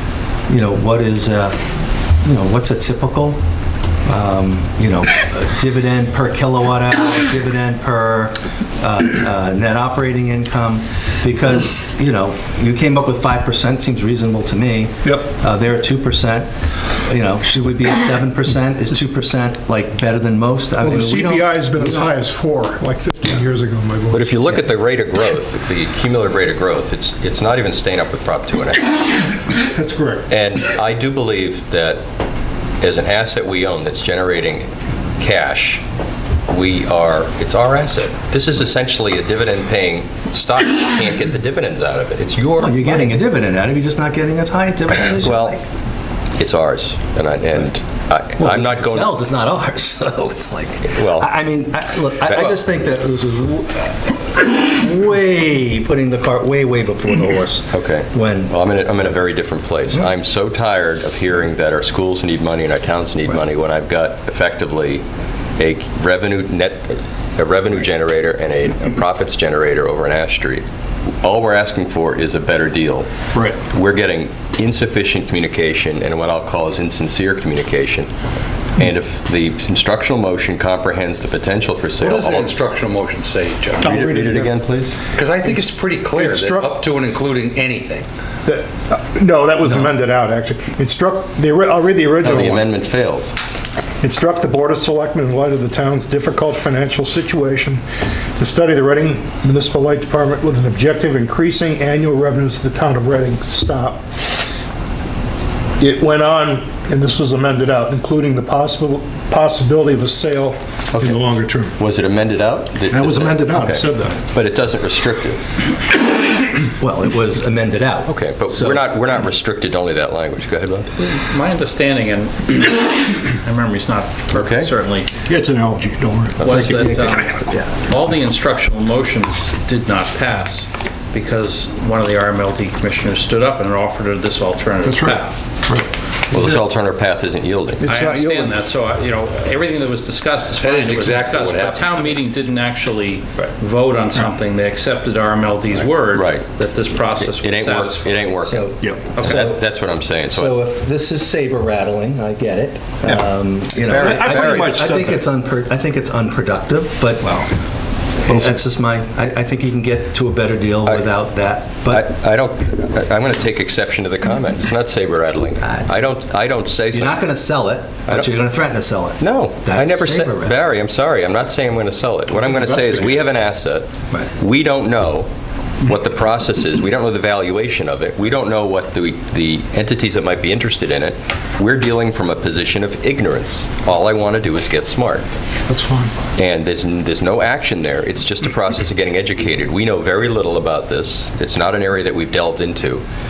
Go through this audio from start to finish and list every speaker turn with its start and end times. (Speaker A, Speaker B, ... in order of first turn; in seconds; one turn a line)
Speaker A: 0.5-1.6
Speaker A: 2.2-3.4
Speaker A: 4.0-22.0
Speaker B: 20.8-24.3
Speaker C: 24.1-29.4
Speaker B: 29.6-30.3
Speaker C: 30.3-32.0
Speaker C: 32.8-34.7
Speaker C: 35.2-35.8
Speaker C: 36.5-43.0
Speaker A: 42.4-45.6
Speaker C: 45.2-45.6
Speaker C: 46.4-49.1
Speaker A: 48.4-58.5
Speaker C: 50.9-51.3
Speaker C: 52.3-52.6
Speaker C: 57.7-65.0
Speaker C: 65.6-70.6
Speaker C: 71.2-73.1
Speaker B: 73.3-73.6
Speaker C: 73.7-78.1
Speaker C: 78.8-82.5
Speaker D: 82.0-83.9
Speaker C: 83.8-85.0
Speaker B: 83.8-84.5
Speaker D: 85.1-88.1
Speaker B: 85.4-86.7
Speaker B: 88.4-92.6
Speaker C: 92.2-93.3
Speaker B: 94.0-97.8
Speaker B: 98.4-104.0
Speaker B: 105.8-111.7
Speaker C: 111.8-115.4
Speaker B: 112.9-114.2
Speaker A: 116.8-118.8
Speaker C: 118.1-120.9
Speaker E: 121.0-125.2
Speaker C: 124.3-124.7
Speaker B: 125.2-126.9
Speaker E: 126.4-135.4
Speaker C: 126.4-126.7
Speaker A: 126.5-127.7
Speaker B: 134.8-135.9
Speaker C: 136.3-137.8
Speaker B: 137.8-138.7
Speaker E: 137.8-148.3
Speaker D: 140.6-142.2
Speaker C: 146.1-146.5
Speaker C: 147.2-150.6
Speaker A: 148.5-149.6
Speaker B: 148.8-149.1
Speaker E: 149.2-149.5
Speaker A: 150.3-157.3
Speaker B: 153.8-155.2
Speaker C: 153.9-154.7
Speaker B: 157.2-157.5
Speaker A: 158.2-162.1
Speaker C: 161.9-167.3
Speaker A: 165.6-166.0
Speaker A: 166.9-170.5
Speaker C: 169.2-175.3
Speaker C: 175.8-185.2
Speaker B: 185.7-186.1
Speaker C: 186.4-193.0